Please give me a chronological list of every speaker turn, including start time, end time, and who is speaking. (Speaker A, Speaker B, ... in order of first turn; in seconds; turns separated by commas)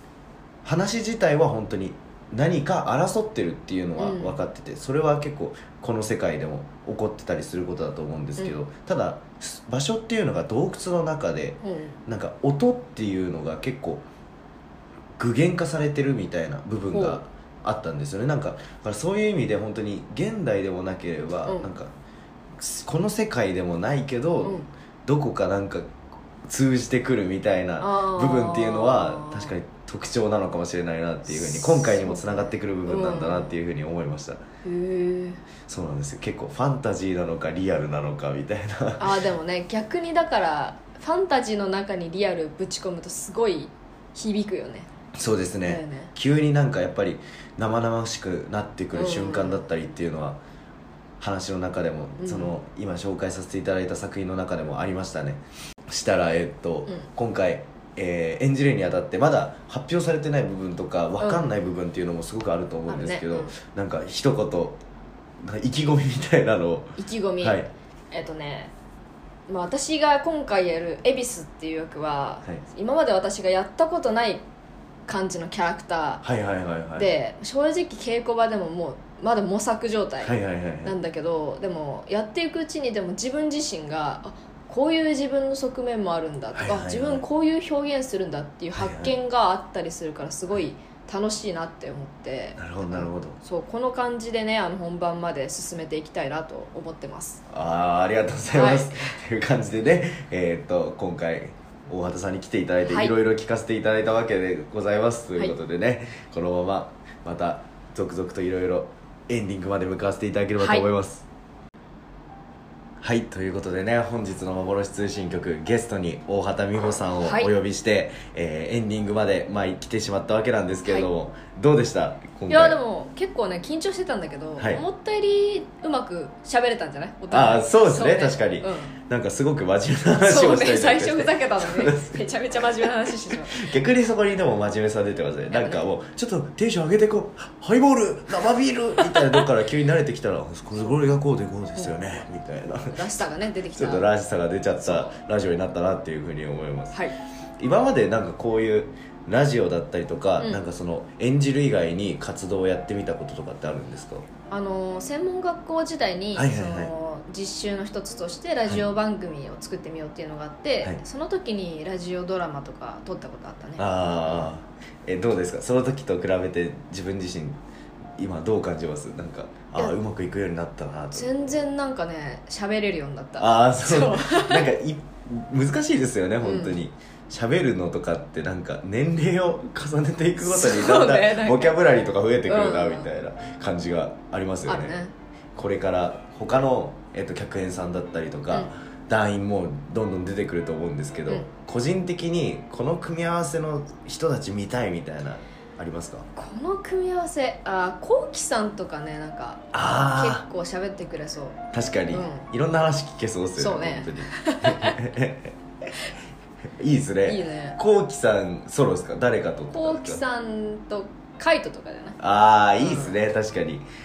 Speaker A: 0.6-14.0, Speaker B: 4.0-4.3, Speaker B: 11.6-11.9, Speaker A: 15.2-21.9, Speaker B: 16.9-17.2, Speaker A: 22.6-25.9, Speaker B: 24.4-24.7, Speaker A: 26.4-34.4, Speaker B: 27.8-29.5, Speaker B: 31.3-33.6, Speaker B: 34.6-35.4, Speaker A: 35.7-39.2, Speaker B: 39.0-44.9, Speaker A: 45.1-50.4, Speaker B: 45.6-46.1, Speaker B: 48.9-49.6, Speaker A: 51.2-64.8, Speaker B: 52.2-52.6, Speaker B: 61.2-61.5, Speaker B: 62.9-63.5, Speaker A: 65.4-67.7, Speaker B: 67.0-68.7, Speaker B: 69.5-74.4, Speaker B: 75.1-76.2, Speaker A: 76.2-77.1, Speaker B: 77.0-97.4, Speaker A: 80.2-80.9, Speaker A: 86.5-87.2, Speaker A: 88.7-89.1, Speaker A: 92.6-93.4, Speaker A: 97.5-111.2, Speaker B: 98.5-99.0, Speaker B: 102.9-103.1, Speaker B: 110.6-110.9, Speaker A: 113.0-122.8, Speaker B: 117.2-117.5, Speaker B: 122.5-129.0, Speaker A: 124.6-124.8, Speaker A: 127.3-143.0, Speaker B: 130.2-133.7, Speaker B: 135.5-135.9, Speaker B: 139.0-139.4, Speaker B: 142.7-144.1, Speaker A: 143.7-147.0, Speaker B: 144.8-145.2, Speaker A: 147.6-154.3, Speaker B: 154.5-164.5, Speaker A: 156.3-156.9, Speaker A: 163.8-167.6, Speaker A: 168.2-171.3, Speaker B: 171.1-174.7, Speaker A: 173.4-185.0, Speaker B: 176.4-176.8, Speaker B: 180.4-181.8, Speaker B: 182.4-183.1, Speaker B: 184.7-185.1, Speaker A: 185.6-196.3, Speaker B: 196.3-201.6, Speaker A: 199.7-200.4, Speaker A: 201.7-205.5, Speaker B: 202.1-202.4, Speaker B: 203.6-205.0, Speaker A: 206.8-210.2, Speaker B: 207.2-207.8, Speaker B: 209.7-212.2, Speaker A: 212.2-213.9, Speaker B: 212.8-213.2